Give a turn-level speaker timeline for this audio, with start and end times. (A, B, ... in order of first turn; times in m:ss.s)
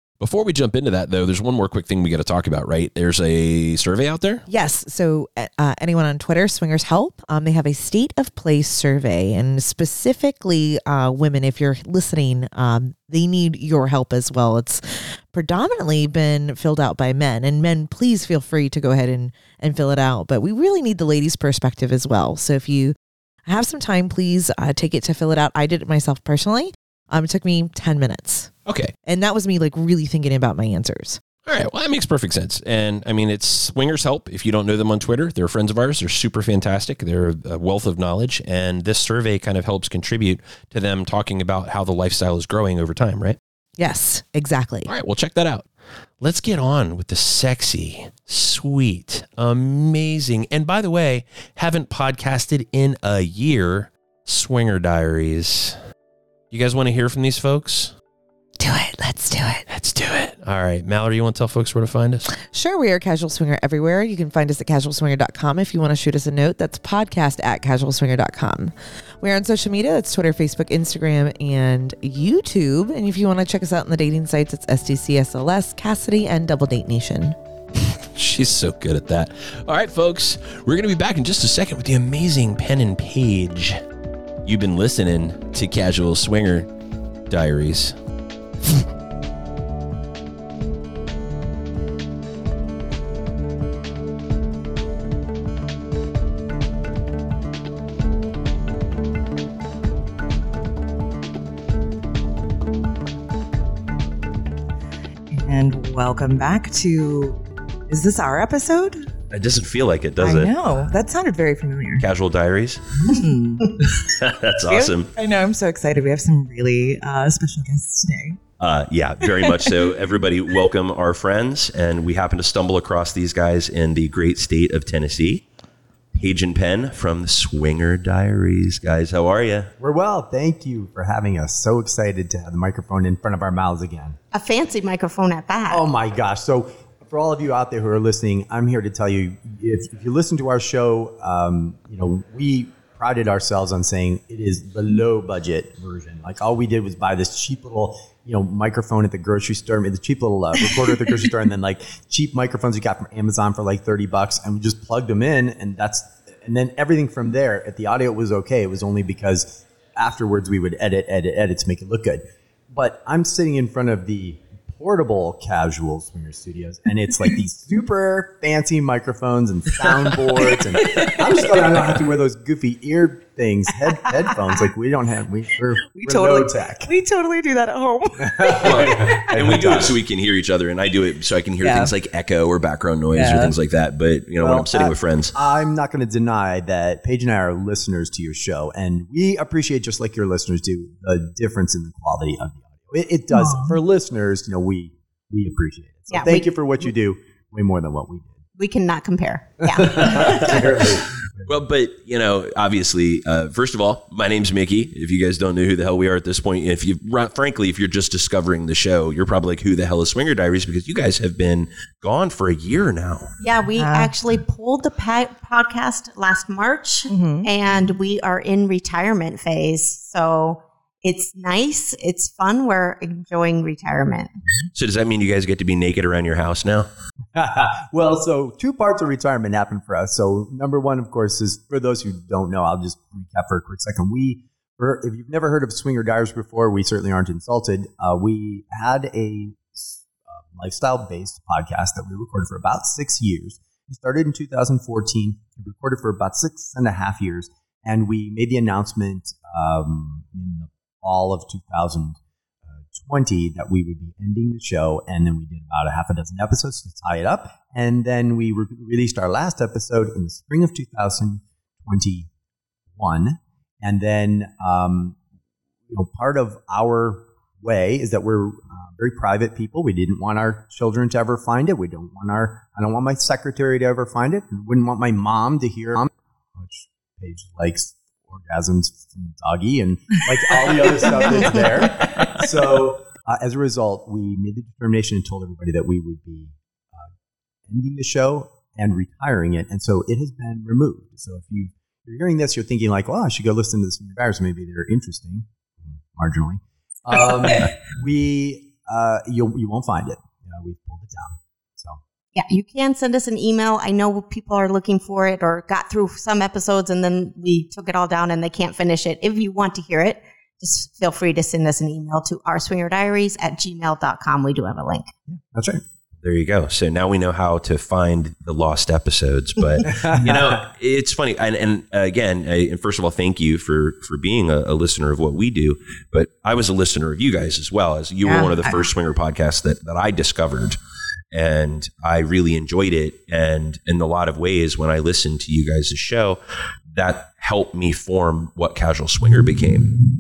0:00.2-0:04.4 A
0:04.5-0:28.5 B
0:28.7-0:28.9 A
0:29.1-0:31.2 B
0:31.5-0:43.4 A
0:43.8-0:44.9 B
0:44.9-0:45.7 A
0:46.2-0:55.8 A
0:56.5-0:57.9 A
0:58.6-0:59.6 B
0:59.7-1:02.3 A
1:02.4-1:17.4 B
1:17.9-1:23.8 A
1:24.4-1:26.7 A
1:27.3-1:28.0 A
1:45.3-1:49.1 C
1:49.3-1:50.8 A
1:50.2-1:52.1 C
1:52.0-1:53.1 A
1:53.1-1:54.0 C
1:53.8-1:55.1 A
1:54.6-1:58.4 C
1:58.6-2:05.4 A
1:59.2-1:59.9 C
2:06.1-2:09.7 A
2:09.8-2:14.2 D
2:14.3-2:15.9 E
2:15.7-2:56.9 D
2:50.4-2:51.8 C
2:54.1-2:54.5 C
2:55.9-2:59.2 C
2:58.2-2:59.9 D
2:58.6-3:05.4 A
3:01.6-3:01.9 C
3:03.1-3:03.5 C
3:04.4-3:18.4 D
3:13.3-3:13.8 C
3:16.1-3:16.5 E
3:18.6-3:20.7 E
3:19.6-3:21.6 D
3:21.5-3:33.3 A
3:33.4-3:44.3 E
3:33.8-3:34.1 C
3:37.1-3:37.5 C
3:44.7-3:46.9 A
3:47.4-4:22.3 D
4:23.0-4:25.2 D
4:25.9-4:47.1 D
4:40.7-4:42.4 C
4:41.3-4:41.7 E
4:47.7-5:02.0 D
5:02.4-5:15.1 E
5:15.3-5:15.8 D
5:16.2-5:30.8 A
5:19.8-5:20.6 D
5:28.2-5:28.9 C
5:31.3-5:36.4 A
5:36.9-5:40.0 A